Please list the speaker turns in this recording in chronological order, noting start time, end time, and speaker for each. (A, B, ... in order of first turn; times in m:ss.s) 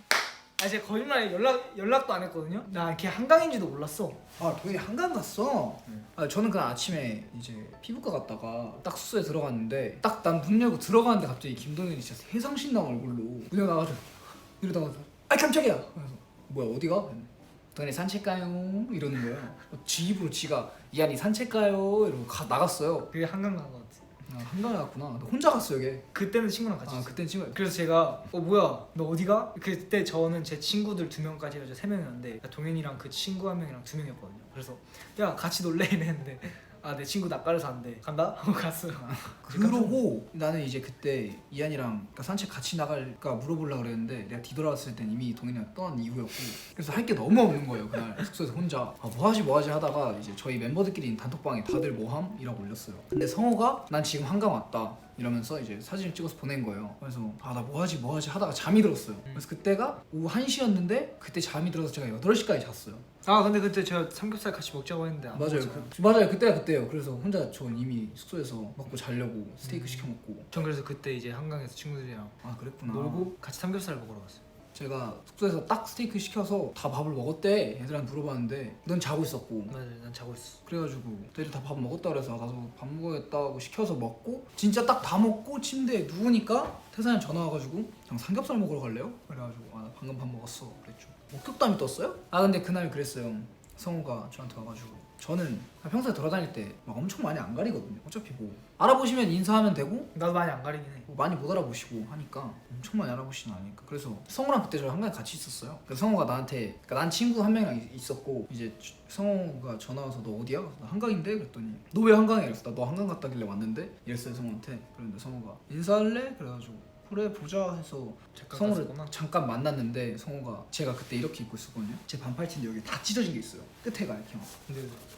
0:00.6-0:04.2 A
0:04.4-0:23.1 B
0:23.1-0:24.0 A
0:24.2-0:26.1 B
0:26.1-0:40.0 A
0:26.8-0:27.6 B
0:38.9-1:03.1 B
1:03.2-1:05.9 A
1:05.3-1:10.5 B
1:09.6-1:14.4 A
1:12.4-1:13.3 B
1:14.7-1:19.7 B
1:19.7-1:20.6 A
1:20.6-1:40.1 B
1:40.1-1:41.1 A
1:41.1-2:04.5 B
1:58.3-1:59.2 A
2:04.7-2:05.0 A